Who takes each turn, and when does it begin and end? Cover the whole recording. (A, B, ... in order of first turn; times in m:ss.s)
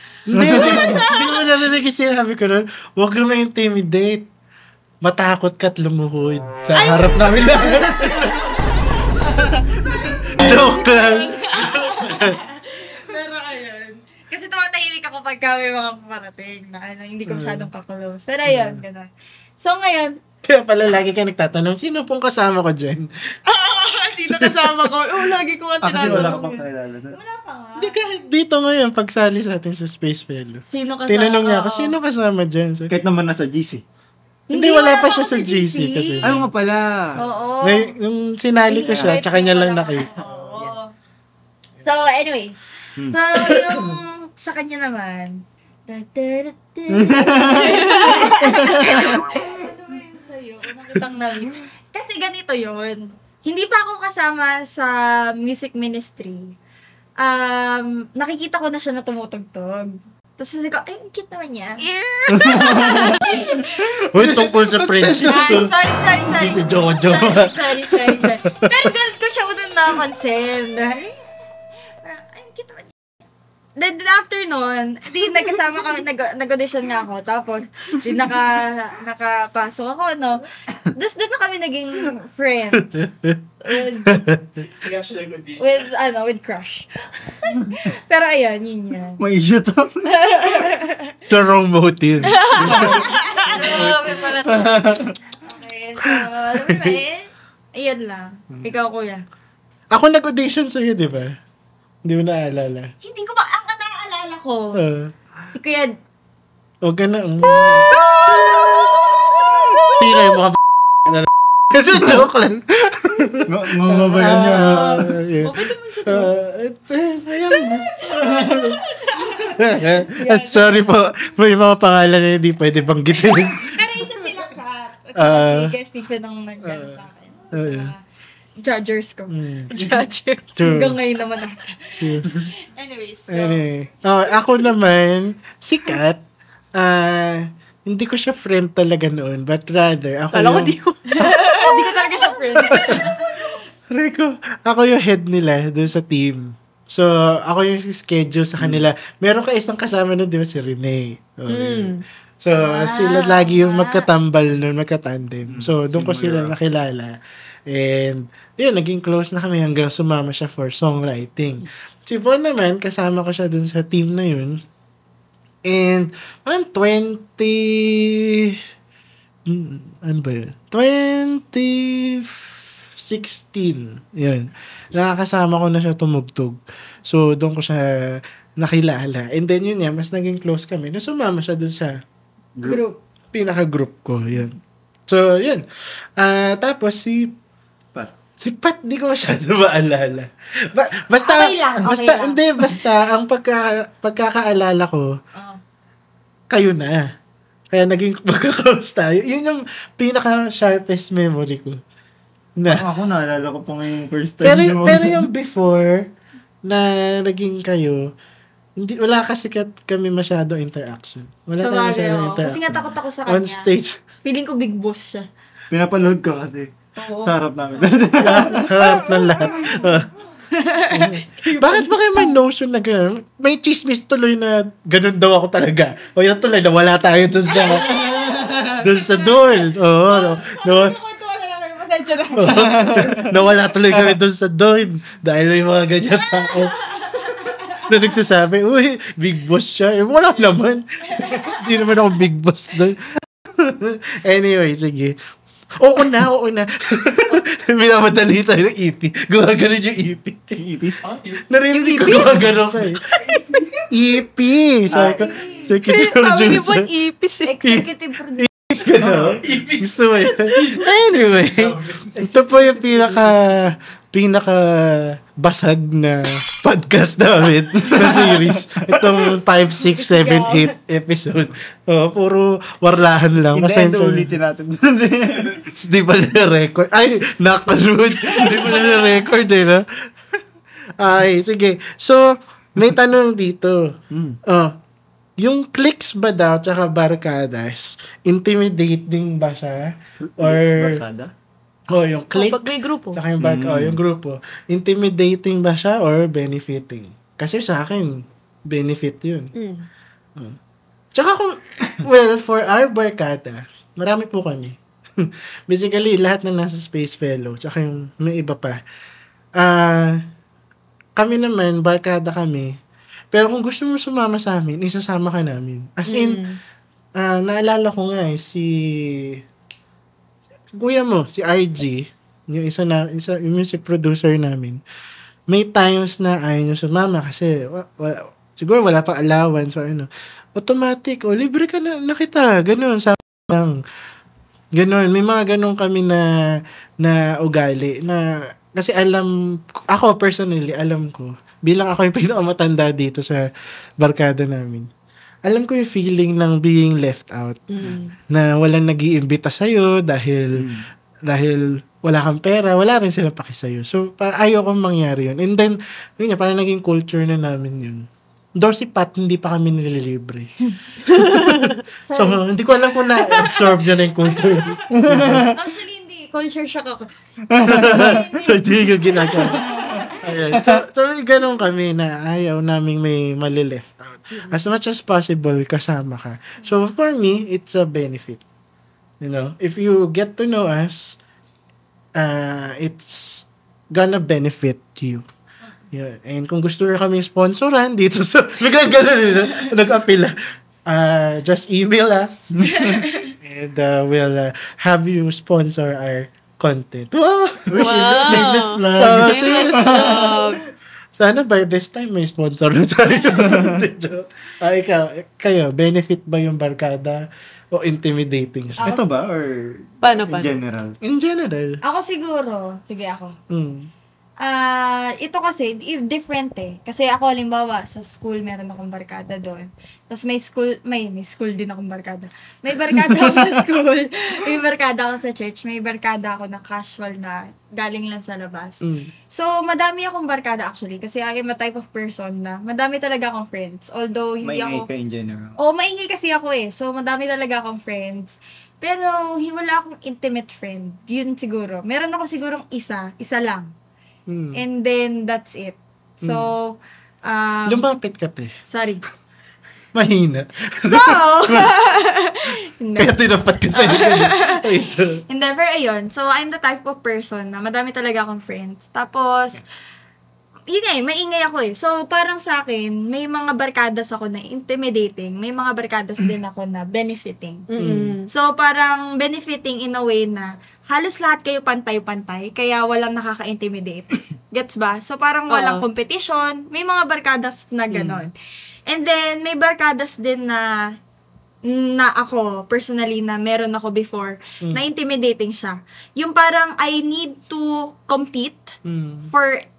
0:00.3-0:04.3 A
0:00.4-0:01.0 B
0:00.4-0:01.5 C
0:05.0-0:08.5 A
0:06.8-0:20.2 C
0:10.0-0:12.4 A
0:17.3-0:17.7 A
0:18.4-0:18.8 A
0:20.4-0:23.1 A
0:23.5-0:28.0 C
0:24.2-0:24.9 A
0:25.8-0:27.2 B
0:26.0-0:26.4 A
0:27.8-0:32.9 A
0:30.7-0:32.0 C
0:32.9-0:33.8 B
0:34.5-0:36.4 C
0:34.5-0:36.5 A
0:36.2-0:37.2 B
0:37.2-0:37.9 C
0:37.6-0:40.7 A
0:38.7-0:40.9 C
0:38.9-0:39.2 B
0:41.8-0:56.6 C
0:43.0-0:43.9 B
0:46.9-0:49.5 B
0:57.2-1:11.2 C
1:01.8-1:03.3 D
1:02.3-1:03.4 B
1:04.1-1:08.7 A
1:12.0-1:12.9 C
1:13.8-1:23.1 C
1:22.8-1:24.5 A
1:23.6-1:24.2 C
1:24.8-1:25.8 E
1:25.6-1:29.2 C
1:29.2-1:30.7 B
1:30.1-1:31.2 C
1:31.3-1:33.1 A
1:32.3-1:34.5 C
1:32.6-1:33.1 B
1:33.5-1:34.8 D
1:33.6-1:35.2 B
1:35.4-1:39.2 C
1:36.7-1:37.0 A
1:39.9-1:41.4 A
1:42.0-1:42.9 A
1:43.0-1:44.8 C
1:44.7-1:45.1 A
1:45.5-1:46.0 C
1:46.8-1:49.1 A
1:47.6-1:50.4 C
1:49.9-1:58.7 A
1:53.5-1:55.1 B
1:54.5-1:56.3 C
1:57.5-2:00.9 C
1:58.1-1:58.8 B
1:59.5-2:03.9 A
2:03.3-2:08.0 C
2:05.2-2:05.8 A
2:06.6-2:07.9 A
2:08.6-2:10.0 C
2:09.3-2:10.0 A
2:09.7-2:10.5 D
2:10.6-2:11.0 A
2:10.6-2:14.6 C
2:12.0-2:12.3 A
2:13.3-2:16.2 A
2:16.8-2:21.4 A
2:20.3-2:22.3 D
2:21.1-2:23.6 C
2:22.6-2:23.1 A
2:23.9-2:44.6 A
2:31.5-2:32.0 D
2:32.6-2:34.1 C
2:35.5-2:36.6 B
2:45.6-2:48.6 A
2:49.5-3:02.0 A
3:02.6-3:02.8 B
3:02.6-3:03.0 C
3:03.3-3:05.6 A
3:06.2-3:07.4 A
3:08.4-3:15.2 A
3:11.2-3:12.4 C
3:15.4-3:15.6 C
3:16.5-3:17.1 A
3:17.7-3:21.8 A
3:22.6-3:22.8 A
3:22.7-3:25.3 B
3:24.4-3:26.1 A
3:26.6-3:28.1 A
3:28.8-3:34.0 A
3:31.6-3:33.7 C
3:34.2-3:35.3 C
3:35.7-3:39.0 B
3:37.0-3:37.9 C
3:38.2-3:40.1 A
3:39.0-3:39.8 C
3:40.5-3:42.3 C
3:40.9-3:47.9 A
3:47.6-3:53.3 C
3:47.8-3:48.8 B
3:48.8-3:51.0 A
3:52.4-3:56.7 A
3:52.6-3:53.2 B
3:56.2-3:58.2 C
3:57.9-4:05.2 A
4:01.1-4:01.9 C
4:05.8-4:10.6 A
4:10.5-4:11.0 B
4:11.0-4:11.4 E
4:11.5-4:13.0 A
4:11.7-4:12.6 D
4:13.9-4:16.9 A
4:14.9-4:15.3 B
4:14.9-4:15.8 C
4:15.9-4:17.6 D
4:17.5-4:18.5 C
4:17.6-4:34.3 A
4:18.9-4:19.4 B
4:19.4-4:22.2 E
4:22.2-4:23.5 B
4:27.8-4:29.2 B
4:29.8-4:30.7 C
4:33.5-4:35.7 B
4:35.7-4:39.9 A
4:38.6-4:39.3 C
4:41.0-4:44.8 A
4:44.1-4:44.4 B
4:45.4-4:51.0 A
4:50.2-4:51.3 B
4:51.9-4:59.5 A
4:52.3-4:53.2 D
4:53.4-4:54.0 B
4:59.6-4:59.9 D
5:01.1-5:08.8 A
5:09.6-5:10.2 A
5:11.2-5:12.8 A
5:13.3-5:16.4 A
5:16.1-5:16.6 D
5:17.2-5:19.4 A
5:20.7-5:24.8 A
5:25.5-5:33.8 A
5:34.7-5:43.5 A
5:44.0-5:44.9 A
5:45.5-5:47.6 A
5:47.7-5:48.2 D
5:48.3-5:50.7 A
5:50.6-5:50.9 B
5:51.3-5:58.1 A
5:58.6-6:00.5 A
6:01.0-6:05.5 A
6:01.2-6:01.6 D
6:02.0-6:02.4 C
6:03.2-6:03.8 C
6:04.4-6:04.7 C
6:04.9-6:05.6 B
6:05.5-6:07.1 C
6:07.5-6:08.3 B
6:07.7-6:09.6 A
6:07.7-6:10.2 C
6:09.4-6:10.8 B
6:10.2-6:18.4 A
6:19.2-6:21.2 A
6:22.2-6:25.2 A
6:25.9-6:32.6 A
6:32.5-6:33.1 B
6:32.7-6:33.3 C
6:33.4-6:40.5 A
6:37.7-6:40.6 B
6:37.8-6:40.6 D
6:41.1-6:49.0 A
6:43.2-6:43.8 B
6:48.8-6:51.0 B
6:48.8-6:49.1 C
6:50.0-6:50.5 D
6:51.0-6:51.8 A
6:51.8-6:53.4 C
6:53.5-6:53.9 A
6:54.4-7:14.9 C
7:03.0-7:03.6 B
7:08.8-7:09.1 A
7:14.4-7:15.6 B
7:15.6-7:23.7 C
7:24.3-7:24.6 A
7:24.5-7:27.9 C
7:26.2-7:26.5 A
7:27.7-7:28.5 A
7:28.7-7:29.0 C
7:29.9-7:31.7 A
7:30.8-7:33.2 C
7:33.0-7:35.2 A
7:33.7-7:34.6 C
7:35.3-7:39.6 C
7:40.7-7:47.7 C
7:47.7-7:48.3 D
7:47.8-7:48.2 A
7:48.3-7:58.3 C
7:55.5-7:55.8 D
7:57.9-7:58.3 A
7:58.9-8:01.0 C
8:01.6-8:08.7 C
8:08.9-8:09.3 A
8:09.3-8:09.6 C